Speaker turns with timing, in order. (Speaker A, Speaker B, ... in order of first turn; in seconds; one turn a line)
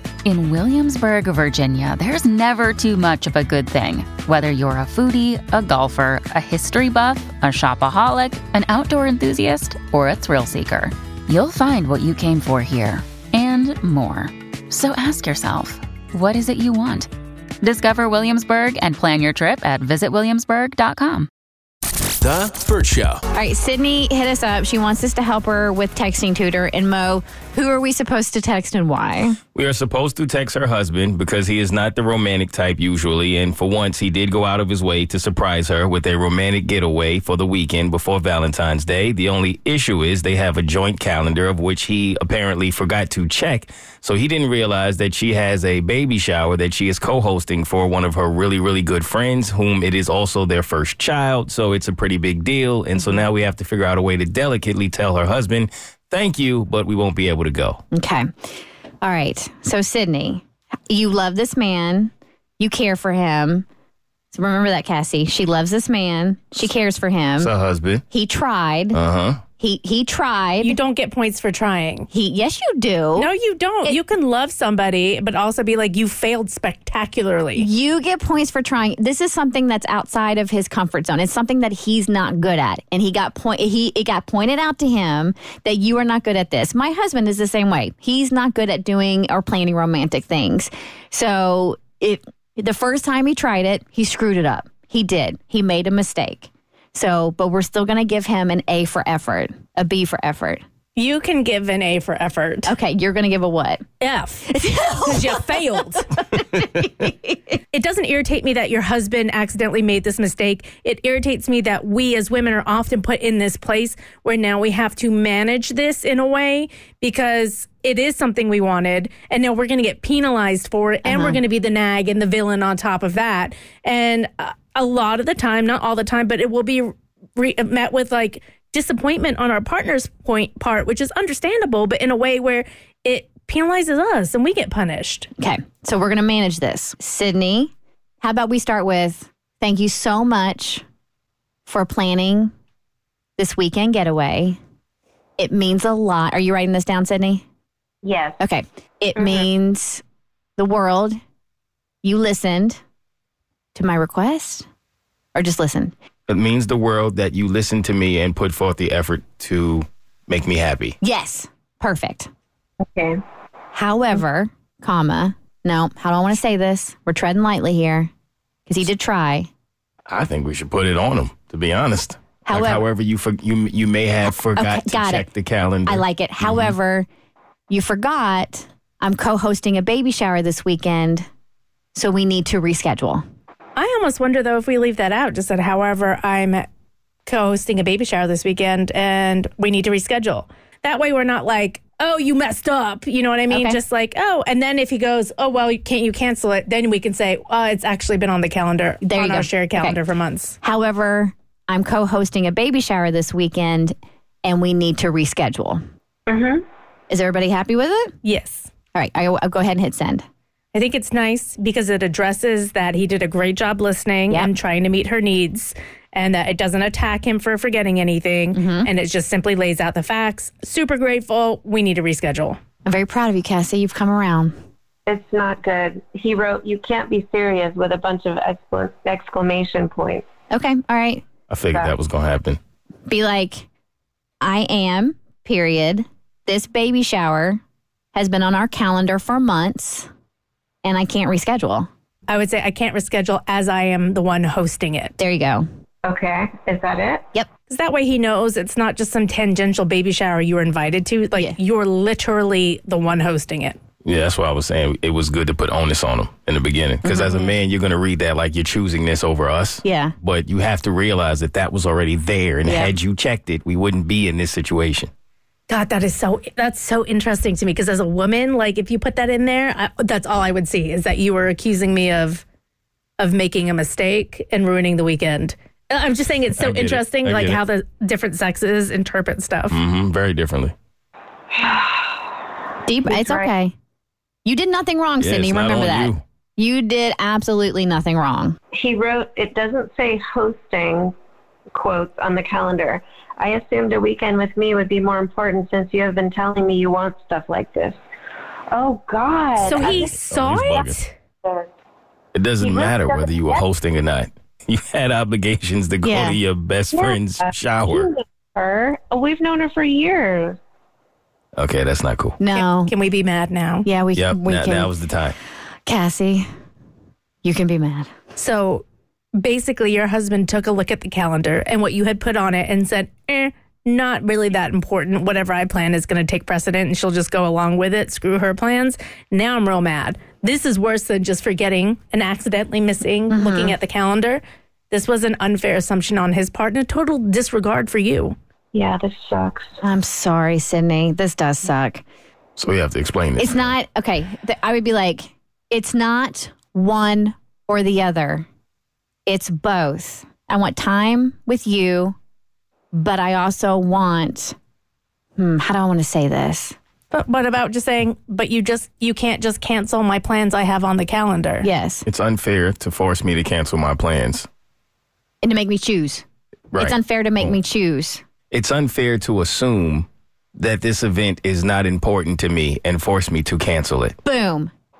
Speaker A: 0.3-17.1
Speaker A: 17.6-21.3
Speaker B: 22.5-23.2
Speaker C: 23.3-29.4
Speaker B: 29.5-57.8
Speaker C: 57.9-58.5
Speaker C: 59.0-63.6
Speaker C: 64.3-67.5
Speaker B: 67.4-68.0
Speaker C: 68.1-69.0
Speaker B: 68.9-69.4
Speaker C: 69.6-70.8
Speaker D: 70.6-72.1
Speaker C: 72.1-73.3
Speaker D: 73.1-77.7
Speaker C: 77.5-100.6
Speaker D: 100.9-102.7
Speaker C: 102.7-103.8
Speaker D: 104.0-106.2
Speaker C: 104.5-105.4
Speaker C: 106.4-107.6
Speaker D: 107.7-135.3
Speaker C: 121.0-121.4
Speaker C: 135.4-140.8
Speaker C: 141.7-142.5
Speaker C: 143.4-144.6
Speaker C: 145.4-147.4
Speaker E: 148.0-148.4
Speaker C: 148.4-150.0
Speaker E: 149.2-149.4
Speaker C: 150.6-151.2
Speaker C: 152.0-152.8
Speaker C: 153.7-154.7
Speaker C: 155.3-155.9
Speaker B: 156.3-160.9
Speaker C: 161.0-162.3
Speaker C: 163.7-168.1
Speaker C: 168.7-169.5
Speaker B: 170.1-176.7
Speaker C: 172.5-172.8
Speaker C: 174.2-175.3
Speaker C: 175.8-177.1
Speaker C: 177.7-181.2
Speaker C: 181.9-183.2
Speaker D: 183.8-186.7
Speaker D: 187.2-200.6
Speaker C: 193.5-193.8
Speaker C: 199.0-200.0
Speaker C: 200.6-205.8
Speaker E: 206.3-206.6
Speaker C: 207.1-208.1
Speaker D: 208.2-208.7
Speaker C: 208.9-210.2
Speaker D: 210.7-222.6
Speaker C: 218.5-218.9
Speaker C: 222.8-224.5
Speaker E: 225.1-230.2
Speaker C: 230.5-231.2
Speaker B: 231.5-232.6
Speaker C: 233.1-233.7
Speaker C: 234.4-237.6
Speaker C: 238.1-240.1
Speaker C: 240.8-241.9
Speaker D: 242.3-245.2
Speaker C: 245.2-245.7
Speaker E: 246.0-247.2
Speaker D: 247.7-253.8
Speaker B: 254.0-265.1
Speaker C: 257.0-257.5
Speaker C: 259.8-260.1
Speaker C: 262.6-262.9
Speaker D: 265.7-272.4
Speaker D: 273.2-279.8
Speaker B: 276.6-277.6
Speaker B: 279.7-280.7
Speaker E: 281.6-282.1
Speaker C: 282.9-283.7
Speaker E: 283.1-283.5
Speaker C: 284.4-288.6
Speaker B: 285.2-286.2
Speaker E: 288.7-291.1
Speaker E: 291.7-298.0
Speaker E: 298.7-300.1
Speaker D: 299.6-301.1
Speaker B: 299.8-301.0
Speaker E: 301.4-301.7
Speaker B: 302.3-308.1
Speaker E: 302.6-303.6
Speaker C: 306.0-306.4
Speaker E: 306.9-310.6
Speaker B: 311.6-312.4
Speaker C: 312.4-312.9
Speaker D: 312.5-313.9
Speaker C: 313.8-314.9
Speaker B: 314.1-315.4
Speaker C: 315.9-316.5
Speaker C: 317.4-318.1
Speaker D: 318.4-318.9
Speaker D: 319.4-338.4
Speaker C: 333.3-333.8
Speaker E: 338.7-339.7
Speaker C: 339.8-342.0
Speaker B: 342.6-343.7
Speaker C: 343.4-348.5
Speaker C: 349.2-352.1
Speaker C: 352.9-354.5
Speaker C: 355.4-356.8
Speaker D: 357.1-361.7
Speaker C: 361.6-362.1
Speaker B: 362.1-364.5
Speaker C: 365.4-366.2
Speaker B: 366.7-367.5
Speaker C: 366.8-368.2
Speaker B: 368.5-374.1
Speaker C: 374.2-374.7